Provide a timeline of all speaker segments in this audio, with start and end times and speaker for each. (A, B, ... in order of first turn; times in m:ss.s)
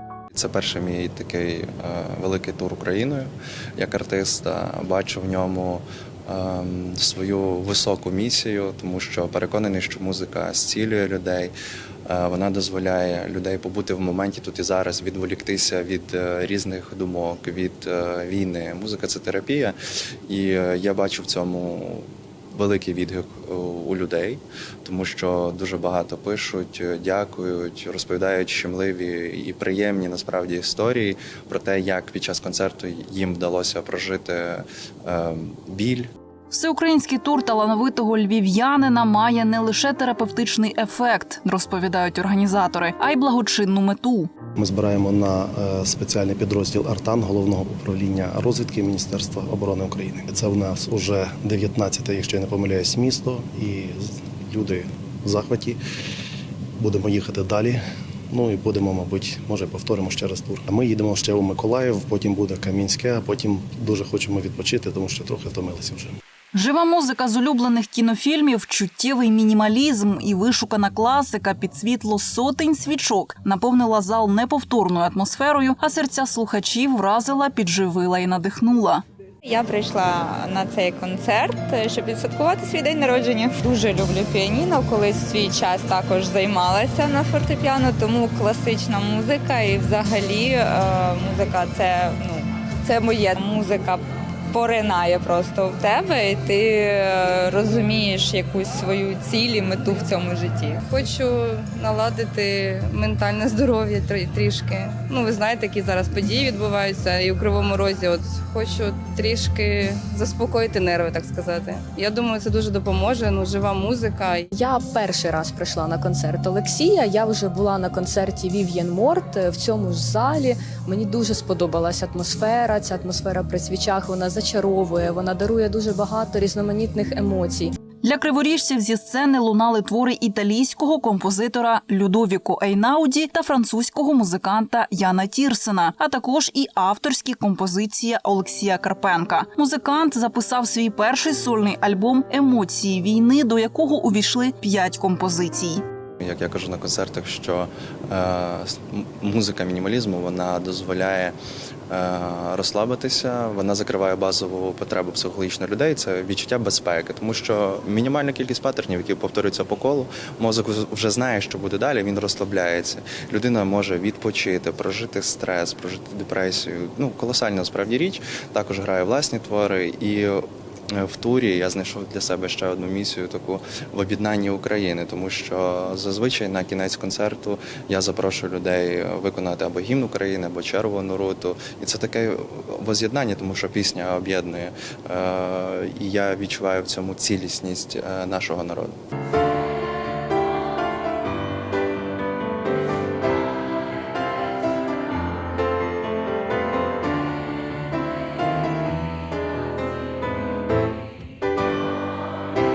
0:00.3-0:11.5 A
0:12.0-0:19.8 A
0:20.3-0:36.1 A
0:36.5-0:44.3 B
0:44.6-0:55.8 C
0:56.8-1:06.1 C
1:06.5-1:19.0 B
1:19.4-1:40.8 D
1:40.9-1:54.5 E
1:54.5-2:07.7 F
2:08.0-2:25.8 B
2:26.2-2:31.4 A
2:31.9-3:09.0 A